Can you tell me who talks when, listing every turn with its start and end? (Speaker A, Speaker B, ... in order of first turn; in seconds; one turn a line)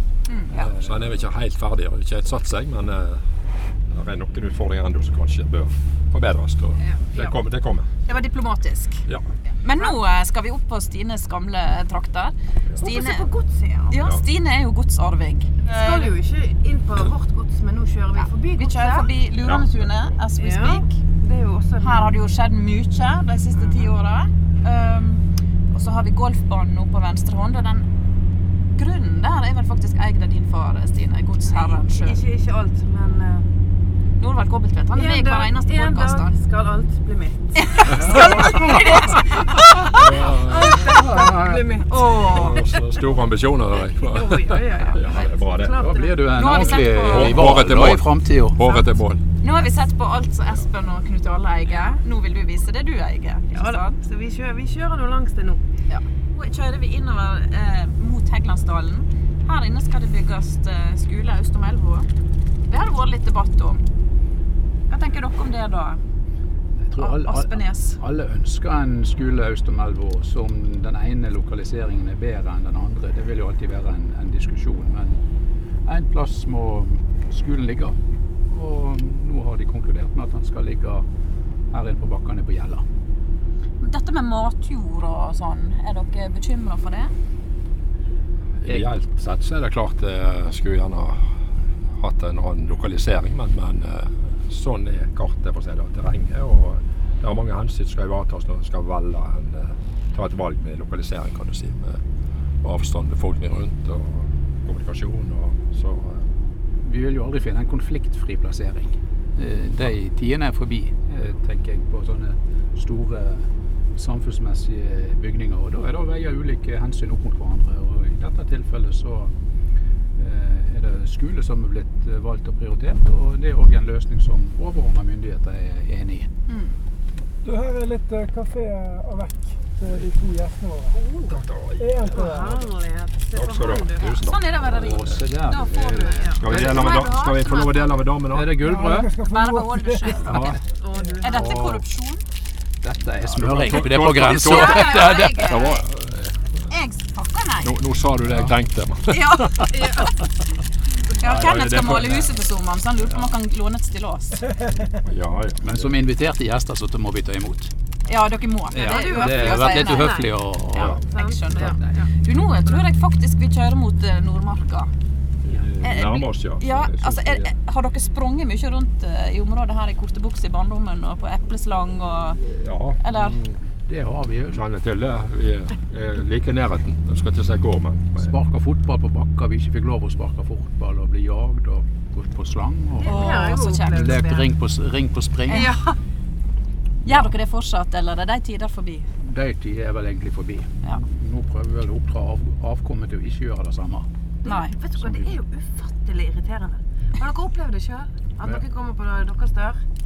Speaker A: 0.3-0.6
Speaker B: 0.5-1.2
Speaker C: 0.6-3.2
Speaker C: 3.9-7.9
Speaker A: 8.1-9.0
Speaker A: 9.6-13.3
Speaker D: 12.8-14.0
Speaker A: 13.9-16.1
Speaker D: 15.6-19.1
Speaker A: 18.1-20.9
Speaker C: 19.4-19.9
Speaker D: 20.4-22.1
Speaker A: 21.8-27.9
Speaker D: 23.5-23.9
Speaker A: 28.8-32.2
Speaker D: 31.5-33.5
Speaker A: 34.2-36.3
Speaker D: 34.9-38.5
Speaker A: 37.5-40.0
Speaker B: 37.9-39.0
Speaker D: 39.5-43.0
Speaker C: 39.8-41.0
Speaker B: 40.8-41.7
Speaker A: 41.9-42.6
Speaker C: 42.0-45.8
Speaker D: 44.0-47.0
Speaker B: 45.7-48.6
Speaker A: 46.2-47.5
Speaker C: 46.8-49.2
Speaker A: 49.4-54.0
Speaker D: 53.5-55.6
Speaker A: 55.9-62.1
Speaker A: 62.7-63.8
Speaker A: 64.9-66.0
Speaker B: 66.8-75.2
Speaker A: 67.0-68.0
Speaker B: 75.8-81.0
Speaker B: 81.7-82.8
Speaker A: 83.8-87.1
Speaker C: 88.6-91.3
Speaker C: 92.0-102.0
Speaker C: 102.6-106.3
Speaker B: 106.8-119.3
Speaker B: 120.2-126.3
Speaker A: 126.5-126.8
Speaker E: 127.4-131.0
Speaker D: 131.0-131.3
Speaker C: 131.2-132.6
Speaker E: 131.8-132.6
Speaker D: 132.1-134.2
Speaker C: 133.3-135.2
Speaker A: 134.0-138.1
Speaker B: 134.7-136.9
Speaker D: 135.9-136.9
Speaker C: 136.3-138.6
Speaker B: 138.3-139.1
Speaker E: 138.6-140.4
Speaker A: 139.1-140.6
Speaker B: 140.2-140.6
Speaker D: 140.8-141.5
Speaker A: 141.2-142.2
Speaker B: 141.3-141.8
Speaker B: 142.8-145.7
Speaker C: 143.3-146.6
Speaker A: 144.3-145.8
Speaker A: 146.7-147.8
Speaker C: 147.6-150.1
Speaker A: 149.1-150.0
Speaker D: 149.7-150.1
Speaker A: 151.1-154.5
Speaker C: 151.1-152.3
Speaker C: 155.0-155.9
Speaker B: 155.6-157.7
Speaker A: 158.1-164.9
Speaker B: 158.7-161.0
Speaker D: 158.8-162.1
Speaker C: 160.8-161.0
Speaker B: 161.5-161.8
Speaker C: 165.4-167.5
Speaker A: 165.8-172.4
Speaker C: 172.5-173.6
Speaker A: 173.0-173.4
Speaker B: 173.8-174.6
Speaker C: 174.5-178.3
Speaker B: 178.2-185.7
Speaker D: 183.0-184.5
Speaker A: 183.0-184.2
Speaker A: 185.5-185.8
Speaker D: 185.5-185.9
Speaker B: 187.0-187.3
Speaker A: 187.0-189.1
Speaker B: 189.2-194.1
Speaker D: 194.4-199.8
Speaker A: 194.4-194.7
Speaker B: 195.0-195.3